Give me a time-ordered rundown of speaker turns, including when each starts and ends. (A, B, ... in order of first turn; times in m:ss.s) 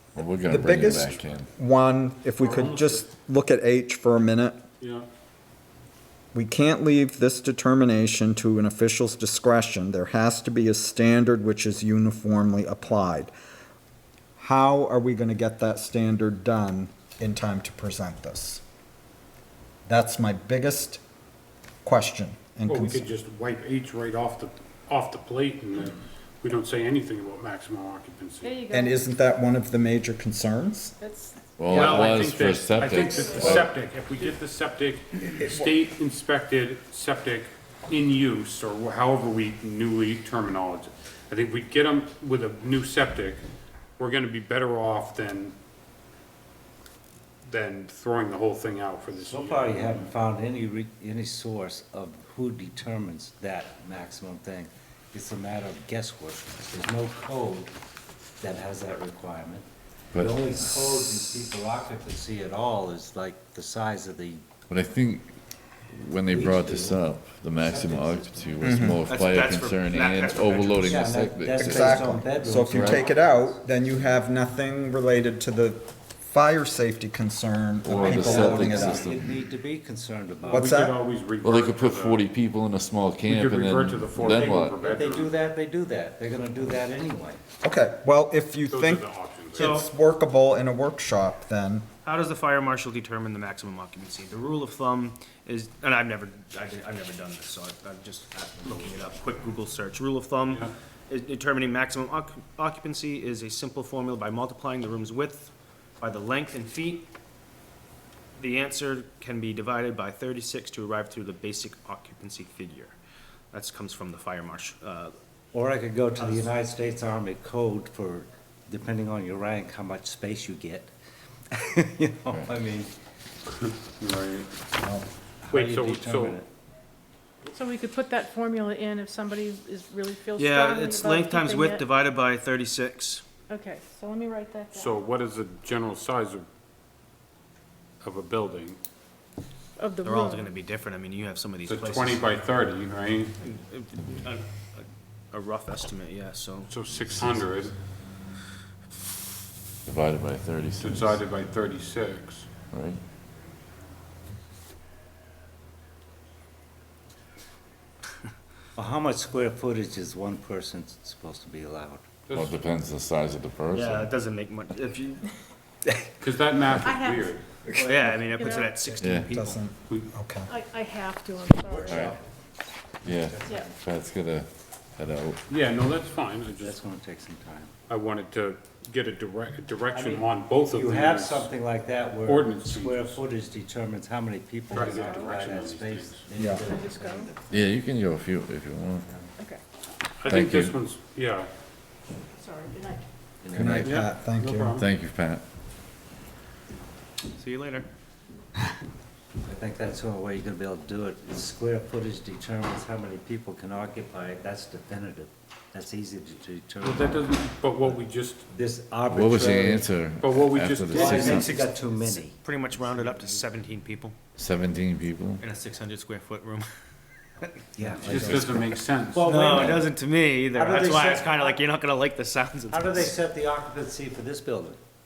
0:00.2-0:01.5 A
0:00.5-0:04.6 B
0:04.8-0:05.1 C
0:06.3-0:13.3 B
0:14.4-0:18.6 B
0:19.9-0:21.0 B
0:21.8-0:23.0 B
0:22.7-0:28.6 C
0:28.4-0:29.0 D
0:28.7-0:31.0 B
0:31.0-0:32.1 D
0:31.6-0:33.7 A
0:31.7-0:43.4 C
0:31.7-0:32.1 E
0:33.1-0:33.6 D
0:35.4-0:35.7 B
0:44.0-0:45.6 C
0:47.4-0:50.1 C
0:49.2-0:57.7 E
0:58.4-0:59.7 E
1:00.1-1:00.8 A
1:00.2-1:04.4 E
1:04.7-1:05.4 A
1:05.9-1:13.1 A
1:06.3-1:07.0 E
1:07.6-1:08.7 E
1:08.6-1:09.0 B
1:09.1-1:11.0 F
1:10.8-1:13.6 E
1:11.6-1:19.1 B
1:17.9-1:19.4 A
1:17.9-1:20.7 E
1:20.4-1:22.2 C
1:20.5-1:21.0 B
1:21.4-1:24.8 A
1:23.3-1:25.3 C
1:24.2-1:27.4 E
1:27.6-1:31.9 B
1:28.7-1:29.9 C
1:29.6-1:29.9 F
1:32.0-1:47.1 F
1:48.4-1:52.9 F
1:53.5-1:55.2 F
1:55.5-2:00.9 E
1:56.2-1:56.5 F
2:01.5-2:02.9 E
2:03.5-2:04.5 C
2:04.8-2:05.1 B
2:05.4-2:06.5 E
2:05.5-2:06.4 C
2:07.5-2:11.9 D
2:10.4-2:13.2 F
2:13.5-2:15.0 D
2:14.7-2:16.5 C
2:18.0-2:18.8 C
2:19.8-2:20.5 D
2:20.0-2:22.3 F
2:21.7-2:23.4 C
2:23.4-2:26.7 F
2:26.7-2:27.7 C
2:29.9-2:31.2 A
2:30.8-2:32.5 C
2:32.7-2:33.0 A
2:38.8-2:42.2 E
2:42.3-2:42.6 C
2:42.3-2:44.1 A
2:43.7-2:45.3 F
2:46.2-2:47.4 C
2:46.8-2:47.3 D
2:47.7-2:49.6 F
2:48.0-2:50.5 B
2:48.3-2:48.8 D
2:49.0-2:49.3 A
2:50.5-2:52.1 D
2:51.6-2:52.2 E
2:51.8-2:52.2 A
2:53.0-2:55.4 A
2:53.1-2:53.8 E
2:55.5-2:56.8 C
2:56.6-2:57.7 E
2:57.9-3:01.5 C
2:59.9-3:07.8 E
3:02.3-3:03.2 C
3:04.7-3:05.4 D
3:04.7-3:06.2 C
3:06.4-3:06.6 B
3:06.6-3:07.3 D
3:07.5-3:09.1 A
3:10.2-3:11.5 C
3:10.2-3:10.8 A
3:12.4-3:13.0 D
3:13.4-3:14.0 E
3:13.5-3:13.9 A
3:13.5-3:14.8 B
3:13.8-3:14.9 C
3:14.8-3:15.4 A
3:17.4-3:17.9 F
3:19.4-3:28.0 E
3:26.8-3:28.5 C
3:28.5-3:29.9 E
3:29.1-3:31.6 A
3:30.2-3:31.5 C
3:30.9-3:32.4 E
3:31.0-3:34.2 F
3:34.4-3:35.4 A
3:35.4-3:36.7 F
3:37.8-3:39.9 E
3:38.0-3:39.8 C
3:38.1-3:38.6 A
3:39.2-3:43.2 F
3:40.5-3:41.6 E
3:42.7-3:44.8 E